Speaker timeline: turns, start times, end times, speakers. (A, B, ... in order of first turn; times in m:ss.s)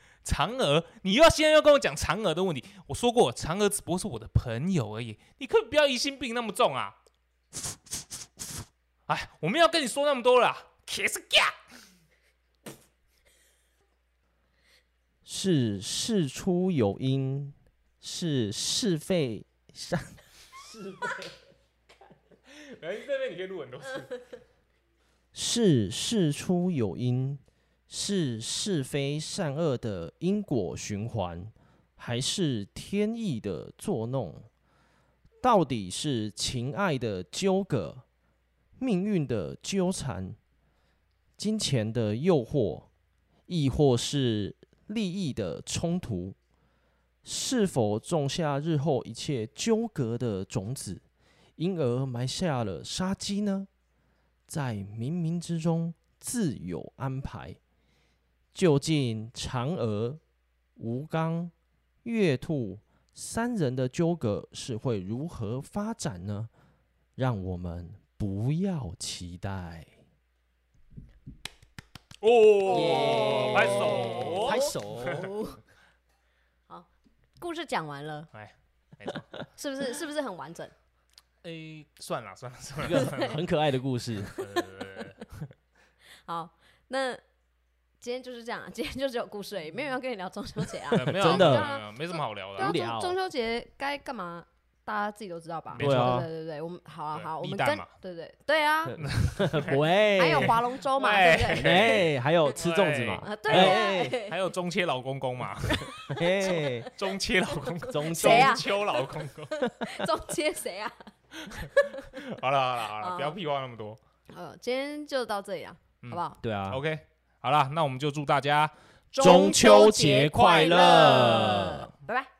0:00.2-0:07.0 A
0:09.1-0:11.5 A
0:15.2-0:20.1 B
0:20.6-0:21.2 A
0:22.5-0:24.3 A
0:25.3-0:34.5 B
0:35.4-0:38.0 B
0:38.8-0:40.4 B
0:41.4-0:42.9 B
0:43.5-0:46.4 B
0:47.2-0:51.0 B
0:51.6-0:53.7 B
0:54.5-0:57.6 B
0:58.5-1:00.2 B
1:00.8-1:01.5 B
1:02.0-1:06.5 B
1:07.2-1:10.0 B
1:12.2-1:15.2 A
1:12.6-1:15.6 C
1:12.7-1:15.3 B
1:16.7-1:18.3 C
1:18.3-1:19.4 A
1:19.6-1:20.7 C
1:21.4-1:23.4 A
1:22.8-1:24.5 B
1:22.9-1:23.3 C
1:24.4-1:25.5 A
1:26.2-1:27.2 C
1:28.0-1:39.0 C
1:30.9-1:32.8 A
1:31.0-1:31.7 B
1:32.6-1:33.2 B
1:35.7-1:36.1 A
1:35.8-1:36.3 B
1:37.1-1:37.9 A
1:38.9-1:40.6 B
1:39.0-1:39.8 A
1:40.1-1:42.0 C
1:40.3-1:46.0 A
1:41.5-1:44.2 B
1:43.2-1:44.4 C
1:45.6-1:46.9 C
1:46.1-1:46.9 B
1:47.0-1:49.6 A
1:47.9-1:48.6 B
1:48.0-1:52.1 C
1:51.3-1:54.0 A
1:53.0-1:53.4 C
1:54.3-1:56.4 C
1:56.0-1:59.3 A
1:56.4-1:56.8 B
1:59.2-2:02.3 C
1:59.2-2:01.9 B